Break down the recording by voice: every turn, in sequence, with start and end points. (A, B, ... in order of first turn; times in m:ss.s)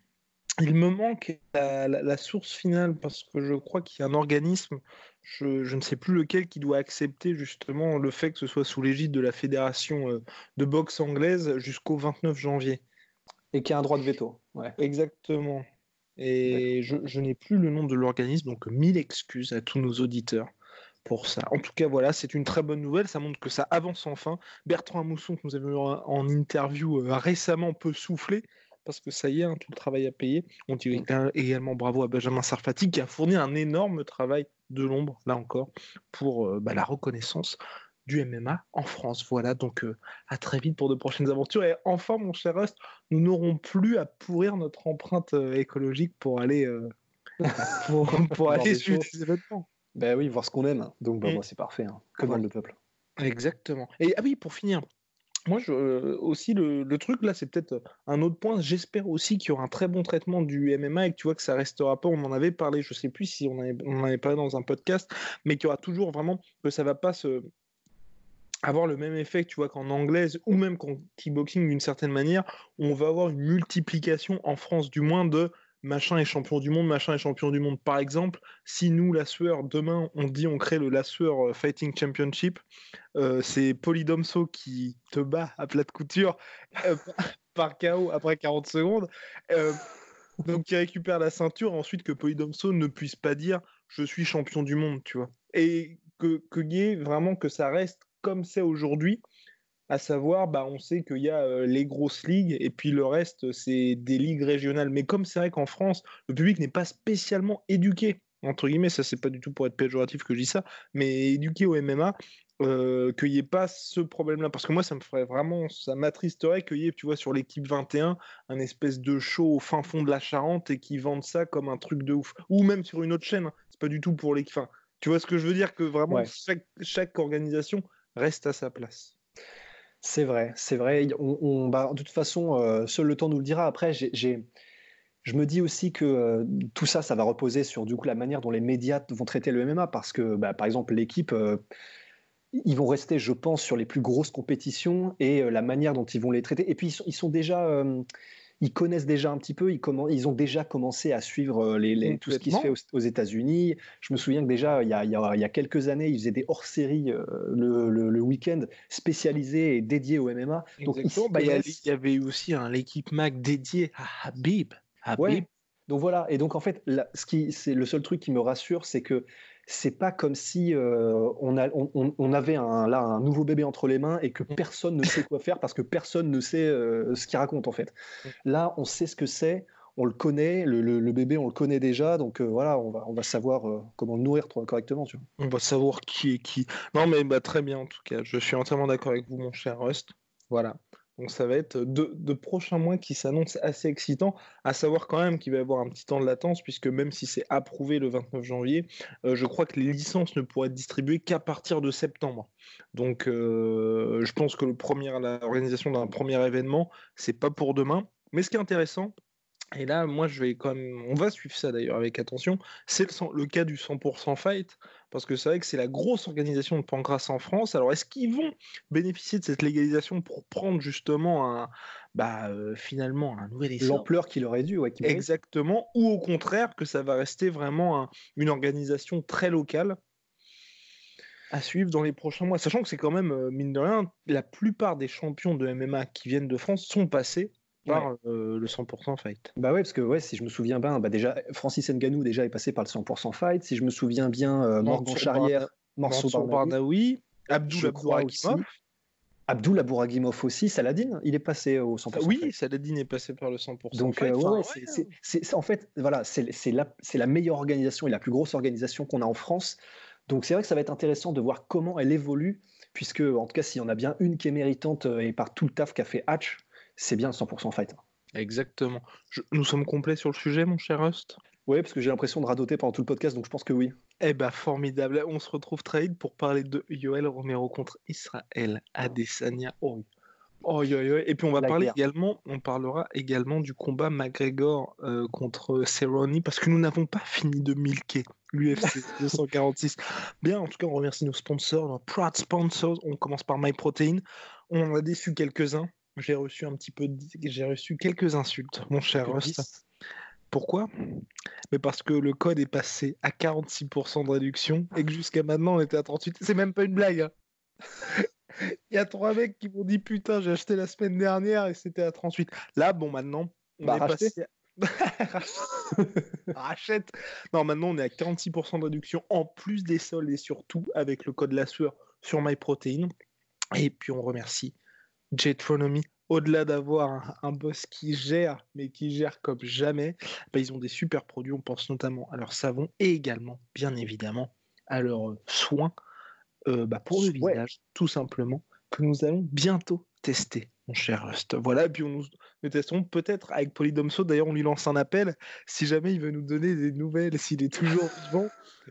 0:00.6-0:12.8 A
0:13.5-0:14.8 B
0:14.8-0:15.6 A
0:16.2-0:20.5 A
0:21.0-0:46.9 A
0:47.4-0:49.1 B
0:47.8-0:49.7 A
0:49.9-0:52.8 B
0:53.2-0:54.8 A
0:55.5-1:07.5 A
1:08.6-1:22.6 A
1:23.2-1:29.8 A
1:30.4-1:39.2 A
1:39.9-2:09.1 A
2:10.0-2:14.4 B
2:15.2-2:21.6 B
2:22.6-2:28.0 B
2:28.6-2:41.8 B
2:32.0-2:32.7 A
2:40.8-2:45.5 A
2:45.2-2:57.9 B
2:58.4-3:05.2 B
3:05.4-3:29.1 A
3:29.8-3:44.1 A
3:43.8-3:45.3 B
3:45.0-3:50.0 A
3:51.5-3:59.5 A
3:59.6-4:06.8 B
4:04.8-4:08.7 A
4:07.7-4:08.7 B
4:09.5-4:12.5 B
4:12.1-4:15.1 A
4:13.9-4:28.0 B
4:28.4-4:31.4 A
4:31.7-4:34.0 B
4:34.2-4:40.0 A
4:40.6-4:59.7 A
4:41.6-4:42.0 B
4:59.2-4:59.8 B
5:00.5-5:00.9 A
5:01.7-5:07.3 A
5:08.0-5:15.7 A
5:13.8-5:14.3 B
5:16.0-5:16.4 B
5:16.5-5:23.1 A
5:23.8-5:24.7 A
5:25.3-5:35.9 A
5:36.7-5:48.5 A
5:37.2-5:37.6 B